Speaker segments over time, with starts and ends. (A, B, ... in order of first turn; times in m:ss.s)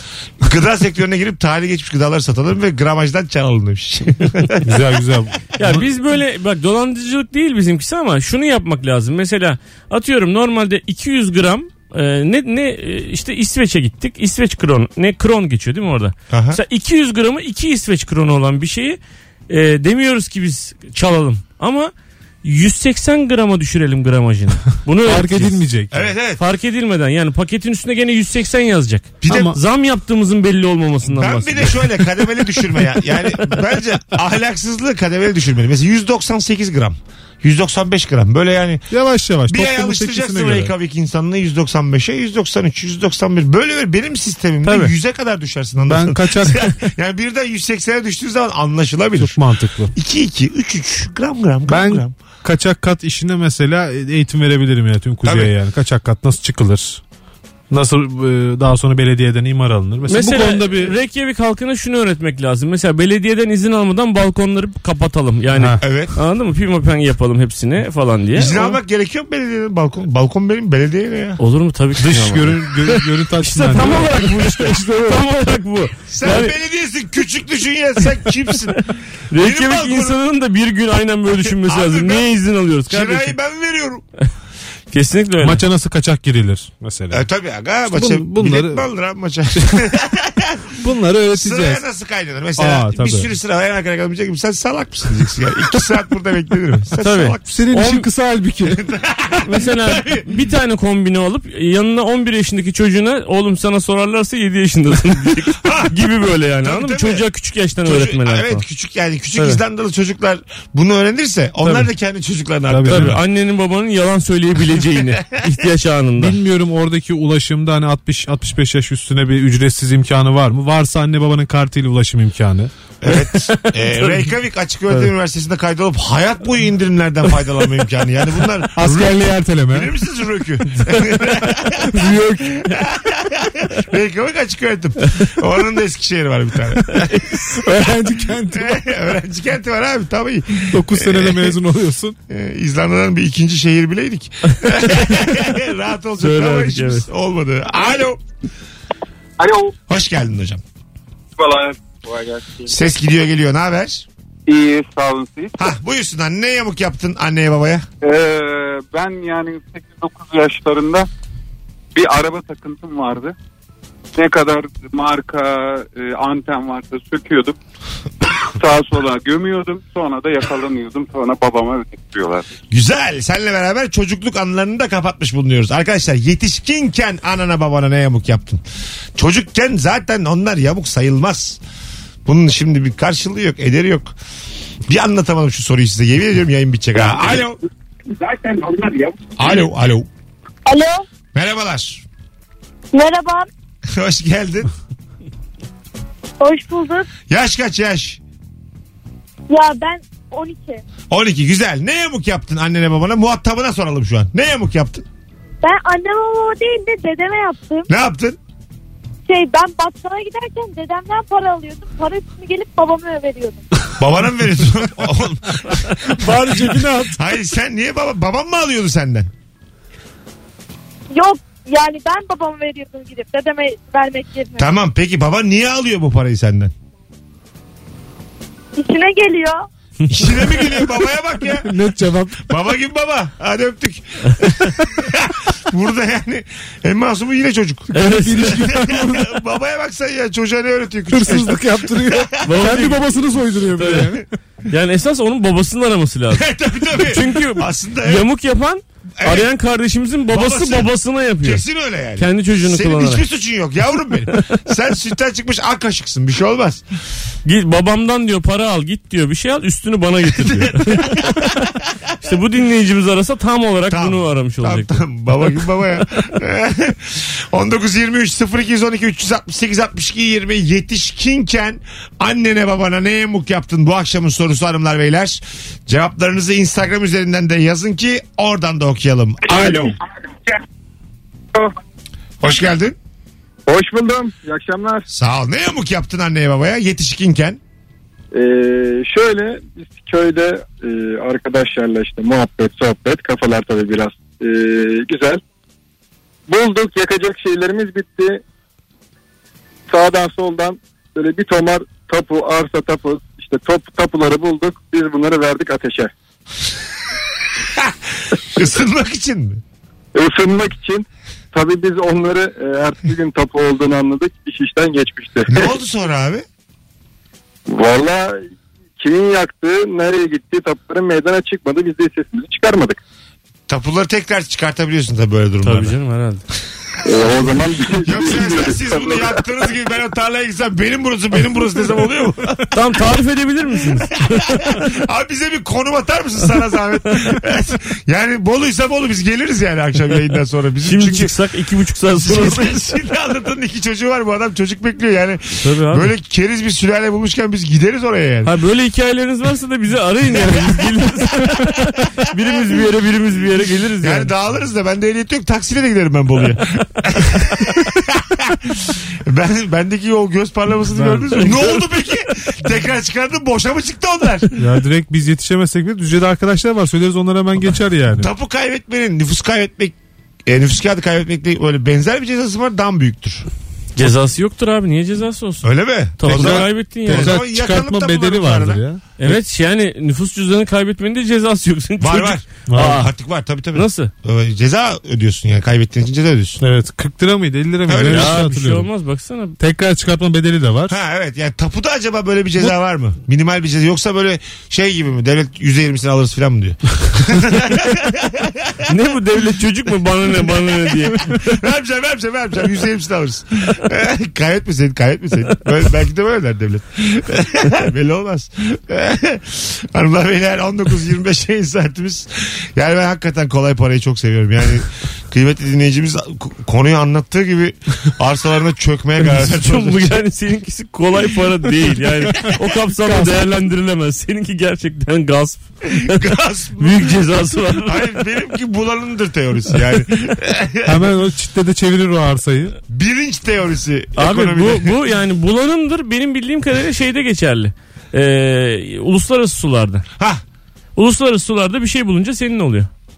0:00.4-0:04.6 A
0:04.6-0:05.8 B
0:05.6-0:21.9 C
0:16.3-0:16.6 A
0:22.4-0:25.6 C
0:25.0-0:26.1 B
0:25.9-0:26.4 A
0:26.4-0:32.9 C
0:29.2-0:29.5 A
0:29.3-0:29.6 B
0:31.1-0:38.9 A
0:38.9-0:40.7 B
0:39.5-0:49.4 A
0:44.6-0:44.9 C
0:45.8-0:46.7 B
0:49.2-0:49.9 B
0:49.9-0:52.1 A
0:51.7-0:57.0 B
0:55.2-0:55.5 A
0:57.7-1:00.9 B
1:00.1-1:08.8 C
1:05.5-1:05.8 B
1:05.8-1:06.1 A
1:08.3-1:11.4 A
1:11.4-1:16.5 C
1:12.0-1:15.2 B
1:16.1-1:20.2 A
1:19.3-1:23.4 C
1:21.4-1:22.3 A
1:22.9-1:24.0 A
1:24.9-1:25.6 C
1:25.4-1:27.2 B
1:27.1-1:30.6 A
1:27.9-1:28.8 B
1:29.6-1:29.9 B
1:30.8-1:31.8 B
1:31.4-1:37.4 A
1:32.6-1:33.3 B
1:37.0-1:38.1 C
1:37.4-1:38.8 B
1:38.7-1:40.2 A
1:39.4-1:48.6 C
1:45.6-1:45.9 A
1:46.6-1:47.2 A
1:47.8-1:53.2 A
1:52.7-1:53.2 B
1:52.9-1:56.4 C
1:56.2-2:02.7 B
2:03.0-2:17.6 A
2:03.6-2:04.1 C
2:08.8-2:09.9 B
2:11.9-2:12.5 B
2:17.0-2:17.6 C
2:17.6-2:18.8 B
2:18.5-2:21.5 A
2:20.7-2:22.2 B
2:22.3-2:28.2 A
2:24.6-2:25.0 C
2:26.2-2:27.1 C
2:29.4-2:29.7 D
2:29.9-2:30.6 A
2:32.7-2:34.0 A
2:34.4-2:35.6 D
2:35.6-2:37.9 A
2:38.0-2:41.1 D
2:41.9-2:43.3 D
2:44.1-2:47.6 D
2:48.4-2:52.5 D
2:52.7-2:58.6 A
2:59.2-3:01.6 A
3:02.2-3:04.1 A
3:04.9-3:07.6 A
3:09.4-3:10.1 A
3:10.6-3:11.0 E
3:11.3-3:12.0 A
3:12.9-3:13.5 E
3:13.9-3:14.7 A
3:16.4-3:17.1 E
3:17.3-3:18.2 A
3:19.5-3:20.8 E
3:21.1-3:25.0 A
3:25.6-3:27.9 E
3:27.9-3:28.4 A
3:29.3-3:33.6 E
3:34.0-3:39.3 A
3:36.2-3:37.3 B
3:41.1-3:44.7 E
3:44.6-3:46.7 A
3:48.8-3:49.7 E
3:50.0-3:50.6 C
3:50.1-3:51.7 A
3:51.6-3:52.5 B
3:52.4-4:02.8 A
3:57.9-3:59.4 B
3:57.9-3:58.6 C
4:01.1-4:04.2 B
4:02.4-4:03.1 C
4:03.8-4:04.1 C
4:04.7-4:11.6 C
4:06.3-4:08.2 A
4:09.2-4:09.5 A
4:10.3-4:10.9 A
4:11.4-4:16.8 A
4:12.2-4:13.2 C
4:17.4-4:21.6 C
4:20.4-4:21.5 A
4:22.2-4:26.0 C
4:23.9-4:39.9 A
4:42.4-4:43.0 A
4:43.6-4:45.0 F
4:45.1-4:47.6 A
4:48.3-4:55.4 F
4:56.5-4:58.4 F
4:59.9-5:06.1 F
5:07.8-5:09.6 A
5:10.1-5:15.7 F
5:15.5-5:16.4 A
5:17.7-5:18.5 F
5:19.0-5:23.0 F
5:23.7-5:25.9 A
5:25.6-5:26.4 C
5:27.0-5:29.3 F
5:28.0-5:33.0 A
5:32.7-5:34.8 C
5:33.9-5:41.3 A
5:40.8-5:42.9 C
5:42.1-5:48.5 A
5:45.6-5:46.1 C
5:48.4-5:54.3 C
5:50.4-5:50.8 A
5:54.0-6:04.6 A
6:00.9-6:01.6 B
6:01.4-6:01.8 C
6:04.6-6:08.3 B
6:08.2-6:13.5 A
6:14.0-6:17.4 C
6:15.6-6:18.8 A
6:16.2-6:19.4 B
6:19.2-6:23.1 C
6:22.0-6:26.6 A
6:22.7-6:23.1 B
6:23.7-6:24.1 C
6:26.6-6:28.9 B
6:27.9-6:28.4 A
6:28.0-6:29.6 C
6:29.6-6:31.0 B
6:30.9-6:38.8 A
6:38.9-6:41.5 C
6:41.3-7:00.2 A
6:59.2-7:06.2 C
7:03.0-7:03.4 B
7:06.0-7:11.0 A
7:06.8-7:08.2 C
7:10.8-7:12.8 B
7:12.9-7:14.9 A
7:14.2-7:20.0 C
7:21.0-7:22.9 C